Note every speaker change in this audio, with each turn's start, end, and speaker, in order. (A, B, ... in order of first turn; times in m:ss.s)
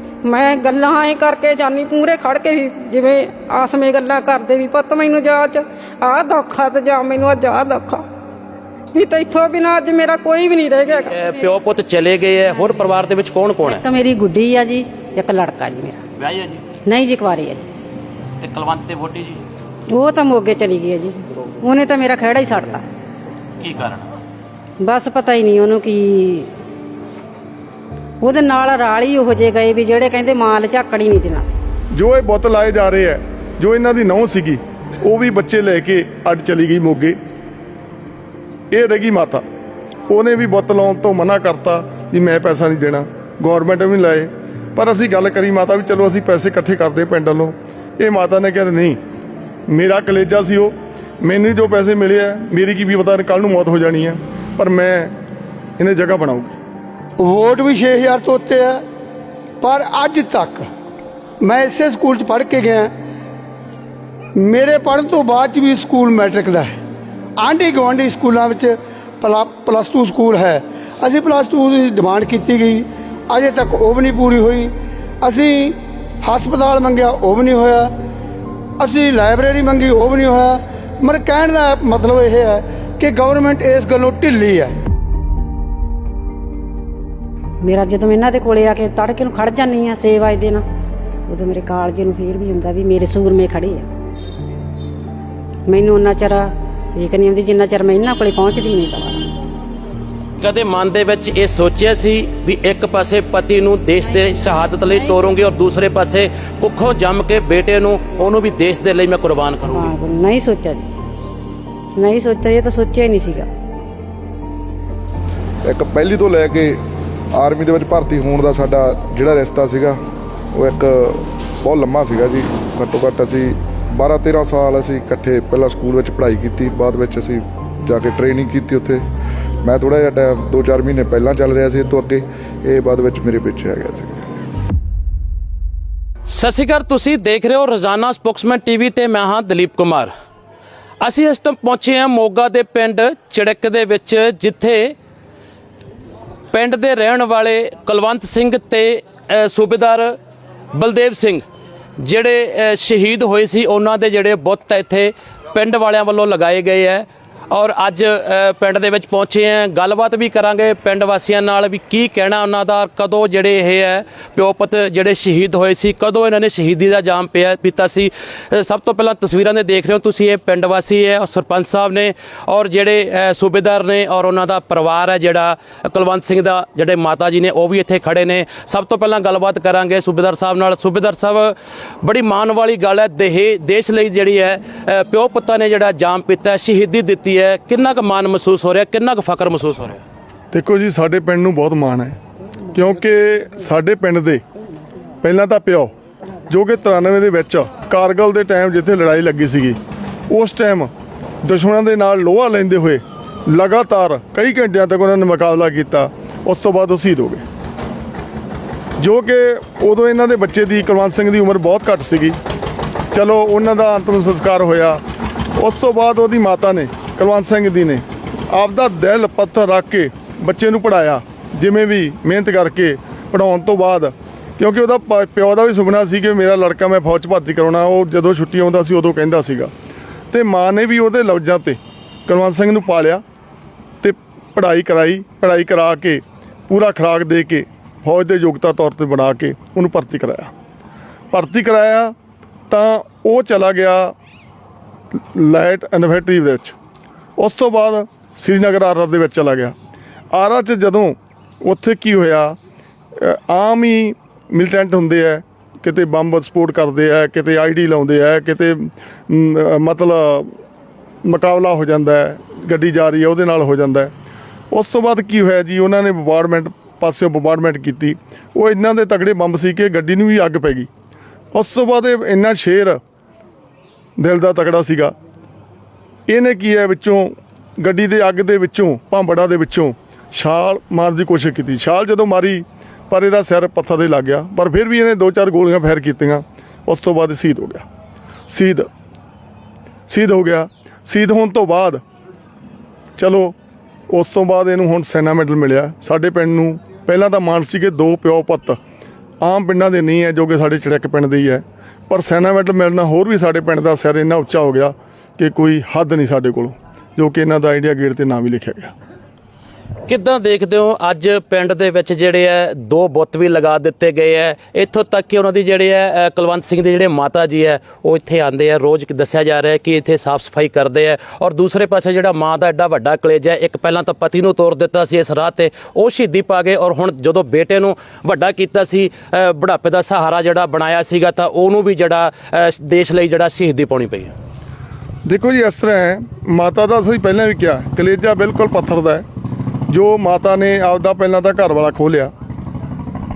0:00.2-0:08.0 A
0:08.9-0:11.4 A
0:11.1-0:13.8 B
0:13.6-0:16.0 A
0:16.2-0:16.6 B
0:16.8-0:17.6 A
0:18.4-0:19.4 B
0:19.9-0:22.8 A
0:23.6-0:24.0 B
0:24.8-0:26.5 A
0:28.2-0:31.6 A
0:31.9-0:37.2 C
0:38.7-0:39.4 C
0:40.1-0:49.0 C
0:49.7-0:55.2 C
0:55.8-0:56.6 C
0:57.2-0:58.8 D
0:59.6-1:00.7 D
1:01.4-1:02.9 D
1:04.4-1:06.8 D
1:07.4-1:17.9 D
1:18.8-1:24.8 D
1:27.6-1:30.6 A
1:31.3-1:33.9 A
1:35.7-1:39.2 A
1:40.4-1:49.9 B
1:49.7-1:51.0 A
1:52.0-1:53.5 A
1:55.6-1:56.8 E
1:57.3-2:00.0 E
2:00.5-2:09.0 E
2:09.6-2:14.4 E
2:16.3-2:20.1 B
2:21.0-2:24.9 B
2:26.5-2:30.2 B
2:30.7-2:31.4 B
2:32.0-3:10.0 B
3:10.5-3:12.2 C
3:12.7-3:14.4 C
3:15.2-3:15.9 C
3:16.5-3:19.8 C
3:20.3-3:20.9 C
3:21.4-3:27.4 C
3:29.0-3:32.4 C
3:33.1-3:35.0 C
3:35.6-3:49.7 C
3:50.3-3:53.2 C
3:54.0-4:00.5 C
4:01.3-4:02.1 C
4:02.7-4:04.1 C
4:05.2-4:06.8 C
4:07.4-4:09.7 C
4:10.3-4:12.6 C
4:13.2-4:20.5 C
4:21.2-4:24.1 C
4:24.7-4:30.9 C
4:31.5-4:33.0 C
4:34.2-4:35.1 C
4:36.3-4:47.8 C
4:48.5-4:48.9 C
4:50.1-4:52.0 C
4:53.2-4:53.5 C
4:54.1-4:58.8 C
4:59.4-5:08.9 C
5:10.1-5:34.3 B
5:35.2-5:39.2 C
5:39.9-5:42.3 C